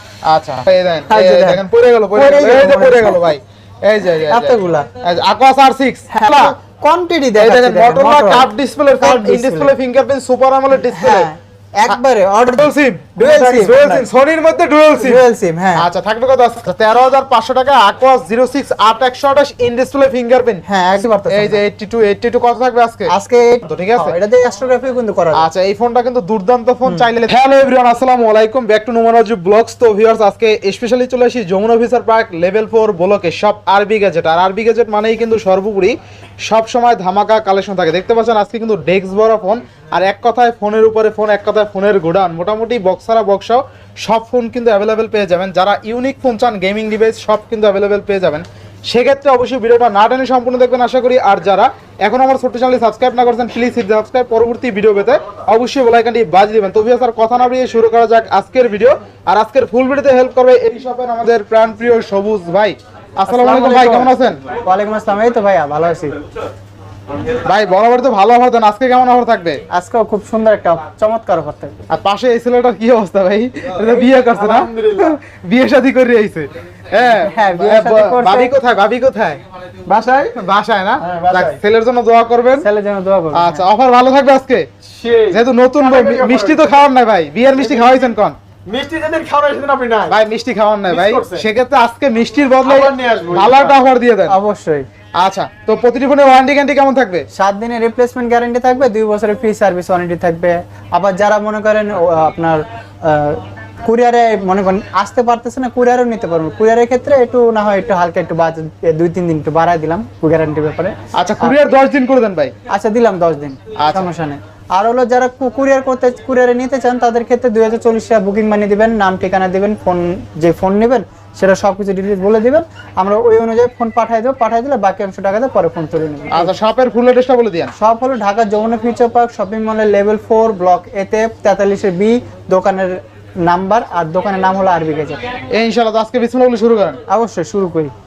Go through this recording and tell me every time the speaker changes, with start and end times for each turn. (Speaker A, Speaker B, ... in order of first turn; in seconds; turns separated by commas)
Speaker A: 0.2-6.5, Speaker B: 1.1-3.2, Speaker B: 4.3-4.9, Speaker B: 6.1-9.7, Speaker A: 7.4-11.3, Speaker B: 10.9-14.1, Speaker A: 12.5-15.2, Speaker B: 15.0-15.9, Speaker A: 15.8-20.6, Speaker B: 20.6-21.6, Speaker A: 21.3-23.1, Speaker B: 23.1-25.4, Speaker A: 23.6-24.1, Speaker A: 25.3-64.4, Speaker B: 63.2-66.2, Speaker A: 67.4-69.6, Speaker B: 69.7-71.8, Speaker A: 71.9-79.4, Speaker C: 74.0-75.2, Speaker B: 77.2-78.5, Speaker C: 79.9-80.3, Speaker A: 80.3-82.7, Speaker C: 81.0-81.6, Speaker B: 82.6-83.6, Speaker A: 83.3-84.7, Speaker C: 84.9-86.7, Speaker A: 85.3-88.4, Speaker C: 87.6-88.0, Speaker C: 88.7-90.1, Speaker A: 90.1-94.3, Speaker C: 90.9-91.4, Speaker C: 92.6-93.7, Speaker B: 94.3-94.9, Speaker A: 95.2-97.3, Speaker B: 97.3-111.6, Speaker A: 111.1-112.5, Speaker B: 112.7-126.5, Speaker A: 113.8-114.1, Speaker A: 126.3-127.7, Speaker B: 127.7-135.2, Speaker A: 135.5-137.0, Speaker B: 137.1-137.9